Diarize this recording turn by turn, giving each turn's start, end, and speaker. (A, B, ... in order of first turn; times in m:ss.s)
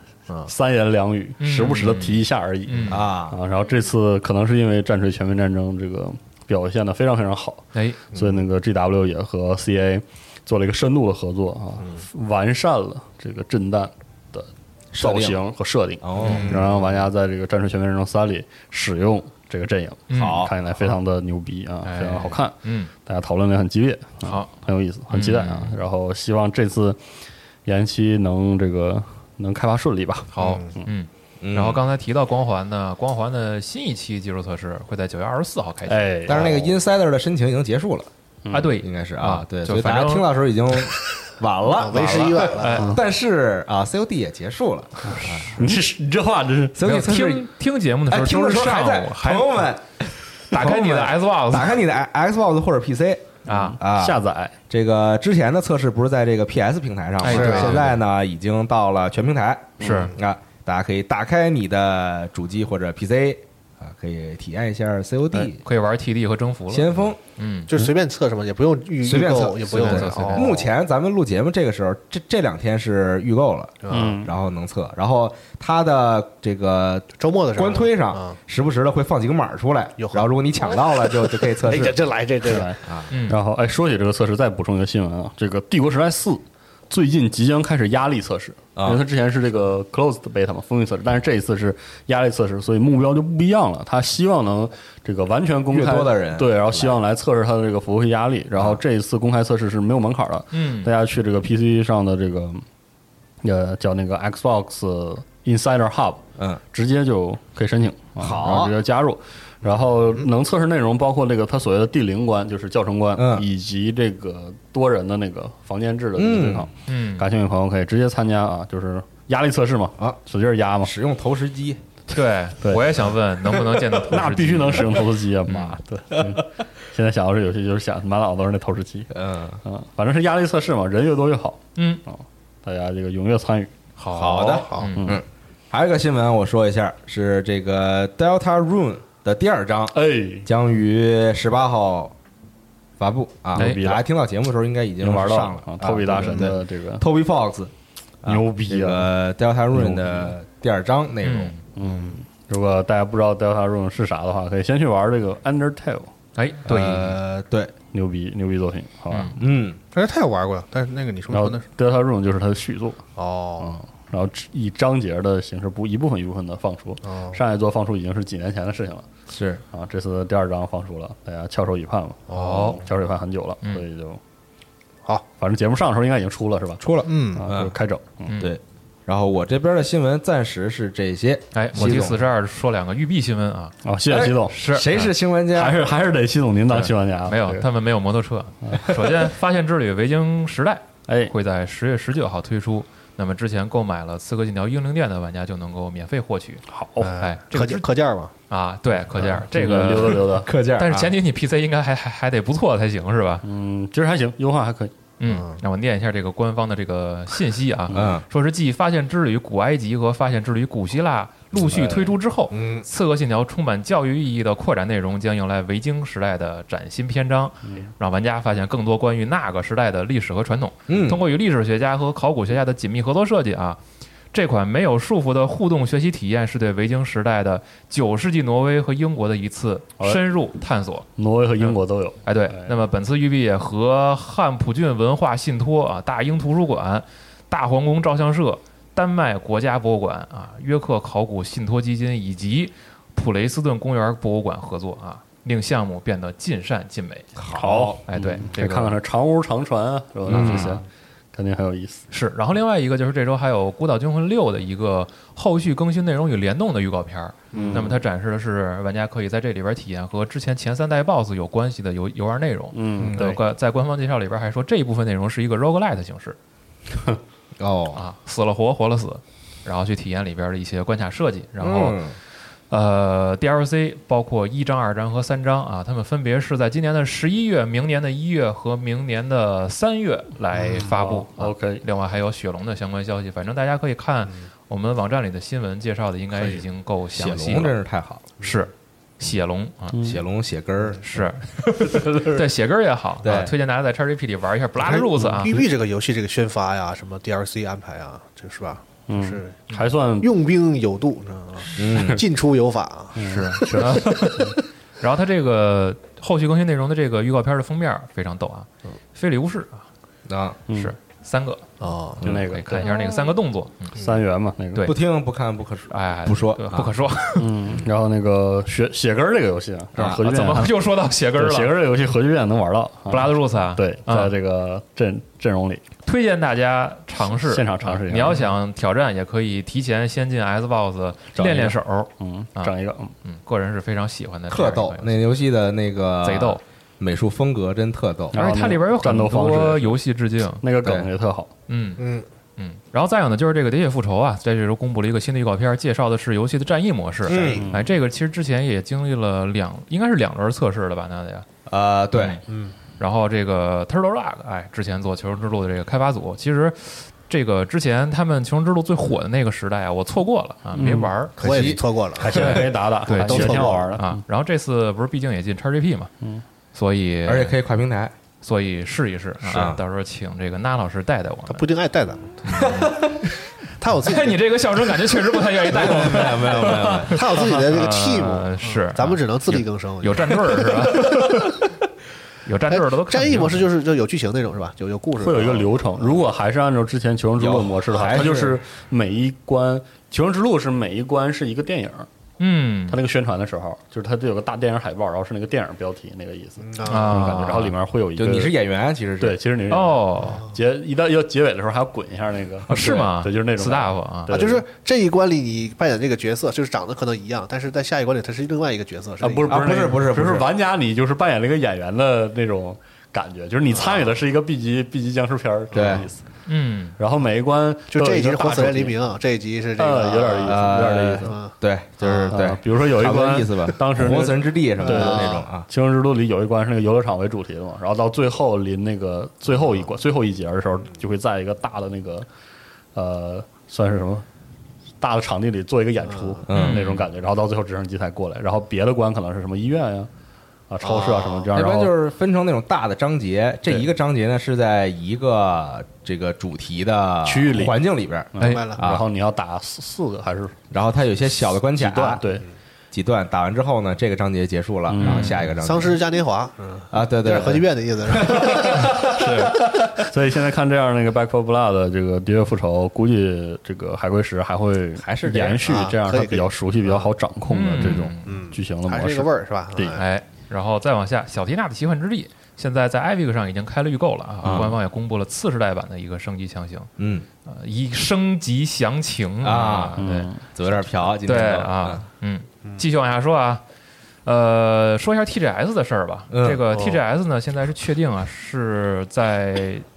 0:00.4-0:27.0 A
0:01.4-0:03.0 B
0:02.9-0:03.4 C
0:07.7-0:08.0 B
0:14.9-0:15.4 C
0:16.0-0:16.8 C
0:16.2-0:16.5 B
0:16.3-0:16.7 D
0:20.1-0:20.4 B
0:20.1-0:20.5 C
0:21.8-0:22.9 B
0:24.2-0:24.5 B
0:25.1-0:25.8 B
0:27.6-0:30.3 A
0:30.3-0:36.4 B
0:30.4-0:30.7 D
0:31.4-0:31.8 C
0:35.9-0:36.8 A
0:36.2-0:38.1 C
0:38.4-0:38.7 A
0:38.5-0:40.3 B
0:38.8-0:45.7 C
0:41.7-0:42.9 D
0:42.1-0:43.0 B
0:45.1-0:46.8 A
0:46.7-0:47.5 C
0:46.8-0:49.7 B
0:48.1-1:05.6 C
0:50.5-0:51.8 B
0:53.4-0:53.8 B
0:53.5-0:54.5 A
0:57.2-0:58.0 B
0:57.2-0:57.9 D
0:59.8-1:00.1 A
0:59.8-1:00.1 B
1:05.3-1:07.7 B
1:06.7-1:07.2 C
1:07.7-1:10.6 D
1:09.0-1:22.0 C
1:09.7-1:10.7 B
1:13.8-1:14.2 D
1:13.9-1:14.3 A
1:17.2-1:18.4 D
1:20.0-1:22.7 D
1:22.4-1:42.6 A
1:22.8-1:23.1 C
1:23.1-1:23.4 B
1:28.7-1:29.0 C
1:35.7-1:37.0 C
1:38.5-1:38.8 C
1:40.5-1:40.9 B
1:43.4-2:00.9 A
1:48.2-1:48.8 C
1:53.2-1:53.5 C
1:56.1-1:56.7 C
1:56.9-1:57.3 B
2:00.8-2:01.8 C
2:02.1-2:05.8 B
2:02.6-2:02.9 A
2:03.6-2:09.1 A
2:09.1-2:09.6 C
2:09.6-2:13.7 A
2:11.8-2:12.0 B
2:14.0-2:15.1 B
2:14.1-2:22.1 C
2:14.6-2:14.9 D
2:14.9-2:15.2 A
2:19.9-2:20.5 A
2:23.0-2:27.7 C
2:23.5-2:24.0 A
2:23.6-2:23.8 B
2:25.0-2:27.0 A
2:28.2-2:31.6 C
2:28.2-2:29.1 A
2:29.7-2:30.3 A
2:31.2-2:31.6 B
2:31.8-2:36.1 A
2:36.4-2:37.2 B
2:36.6-2:37.7 C
2:37.9-2:39.4 A
2:39.1-2:39.3 B
2:39.4-2:39.8 C
2:39.9-2:41.6 D
2:41.3-2:43.0 A
2:43.2-2:43.8 D
2:43.6-2:49.1 A
2:47.0-2:47.4 D
2:49.3-2:49.6 C
2:49.7-2:54.2 A
2:52.3-2:52.8 D
2:55.4-2:56.8 A
2:56.8-2:57.7 C
2:57.1-2:57.5 D
2:57.3-2:58.3 A
2:58.2-2:58.5 B
2:58.4-3:02.2 C
3:01.5-3:03.8 B
3:01.8-3:02.1 A
3:03.8-3:04.6 A
3:04.1-3:05.9 C
3:04.5-3:05.1 B
3:05.5-3:07.7 A
3:06.7-3:17.8 B
3:08.6-3:09.1 A
3:11.1-3:11.3 A
3:16.7-3:17.2 A
3:17.0-3:18.3 D
3:18.5-3:23.4 B
3:19.2-3:20.5 A
3:19.6-3:21.1 C
3:23.4-3:25.0 A
3:25.2-3:43.8 B
3:25.3-3:25.6 D
3:27.9-3:28.2 C
3:31.7-3:32.2 A
3:32.5-3:32.8 C
3:40.9-3:41.2 C
3:44.3-3:51.1 B
3:51.2-3:52.7 A
3:51.6-4:07.3 B
4:07.4-4:08.0 C
4:07.5-4:10.8 A
4:08.1-4:09.0 B
4:10.3-4:10.8 C
4:10.3-4:10.8 B
4:11.3-4:12.0 A
4:12.1-4:26.4 B
4:17.5-4:17.8 D
4:17.5-4:18.0 A
4:22.7-4:23.4 A
4:23.0-4:23.3 C
4:27.6-4:28.0 C
4:27.9-4:32.0 B
4:31.6-4:32.1 C
4:32.7-4:47.8 B
4:40.8-4:41.8 A
4:47.1-4:48.3 C
4:48.4-4:50.0 B
4:50.0-4:51.0 C
4:51.0-4:55.6 B
4:51.9-4:52.4 C
4:53.2-4:53.5 C
4:54.8-4:59.7 D
4:59.1-5:00.3 A
5:00.2-5:04.0 D
5:01.8-5:02.2 C
5:02.0-5:02.2 A
5:03.2-5:04.6 A
5:03.2-5:09.8 B
5:10.3-5:10.6 C
5:10.7-5:10.9 A
5:10.7-5:11.6 B
5:11.8-5:12.2 D
5:12.2-5:12.5 C
5:12.2-5:12.9 A
5:12.2-5:14.0 B
5:14.0-5:14.9 A
5:14.8-5:16.9 C
5:15.9-5:17.8 B
5:17.4-5:20.8 A
5:19.9-5:20.2 C
5:20.1-5:21.7 B
5:21.4-5:25.8 A
5:23.1-5:24.3 B
5:26.0-5:35.2 B
5:27.3-5:28.5 A
5:31.4-5:33.1 A
5:31.4-5:31.7 C
5:34.5-5:38.4 C
5:36.2-5:36.6 B
5:38.3-5:40.0 A
5:38.3-5:40.6 B
5:40.6-5:41.5 A
5:40.8-5:41.1 C
5:41.7-5:42.0 B
5:42.0-5:42.2 D
5:42.6-5:51.4 B
5:47.2-5:47.7 C
5:47.2-5:47.7 D
5:47.6-5:47.8 A
5:51.7-5:52.4 C
5:52.5-5:52.7 D
5:53.0-6:01.6 B
6:00.7-6:01.1 A
6:01.4-6:01.8 C
6:01.4-6:03.9 D
6:02.2-6:04.2 A
6:02.3-6:06.1 B
6:02.3-6:02.6 C
6:06.7-6:07.6 B
6:07.2-6:08.1 C
6:08.4-6:11.6 B
6:09.5-6:09.8 C
6:11.5-6:12.7 D
6:12.4-6:13.0 B
6:12.5-6:13.2 C
6:13.8-6:14.5 D
6:14.0-6:21.6 B
6:15.7-6:17.2 C
6:15.9-6:21.3 D
6:22.4-6:23.7 B
6:22.7-6:26.2 D
6:25.2-6:32.1 A
6:27.4-6:28.6 C
6:32.4-6:33.0 B
6:32.9-6:38.5 A
6:36.6-6:37.2 D
6:36.8-6:37.7 B
6:38.2-6:39.4 C
6:39.2-6:44.6 A
6:39.7-6:40.4 B
6:42.7-6:44.4 B
6:44.3-6:49.6 D
6:49.2-6:56.2 A
6:49.5-6:50.5 C
6:53.7-6:54.2 D
6:55.7-6:56.0 D
6:55.7-6:56.1 C
6:56.5-6:57.0 B
6:57.0-6:59.0 A
6:57.9-7:02.5 D
6:59.8-7:01.5 A
7:00.4-7:05.7 C
7:02.3-7:12.3 A
7:04.8-7:05.4 D
7:12.9-7:14.2 A
7:15.0-7:20.1 A
7:16.5-7:16.9 C
7:16.5-7:17.0 B
7:20.7-7:21.9 A
7:20.8-7:21.5 D
7:21.5-7:29.1 C
7:27.2-7:27.8 A
7:28.3-7:30.6 A
7:28.4-7:28.6 B
7:28.4-7:28.8 D
7:30.7-7:32.2 C
7:31.7-7:32.4 A
7:32.9-7:35.9 C
7:34.9-7:35.4 A
7:35.0-7:35.4 B
7:35.6-7:39.0 D
7:36.9-7:39.7 C
7:38.5-7:50.0 A
7:45.0-7:45.9 C
7:45.6-7:47.1 D
7:47.5-7:48.4 B
7:48.2-7:50.0 D
7:49.9-7:56.9 B
7:54.4-7:54.7 C
7:57.0-7:57.2 C
7:57.4-8:00.3 B
7:59.4-8:00.0 C
8:00.0-8:00.4 A
8:00.5-8:02.0 C
8:01.1-8:03.6 B
8:04.2-8:09.8 B
8:06.3-8:06.6 C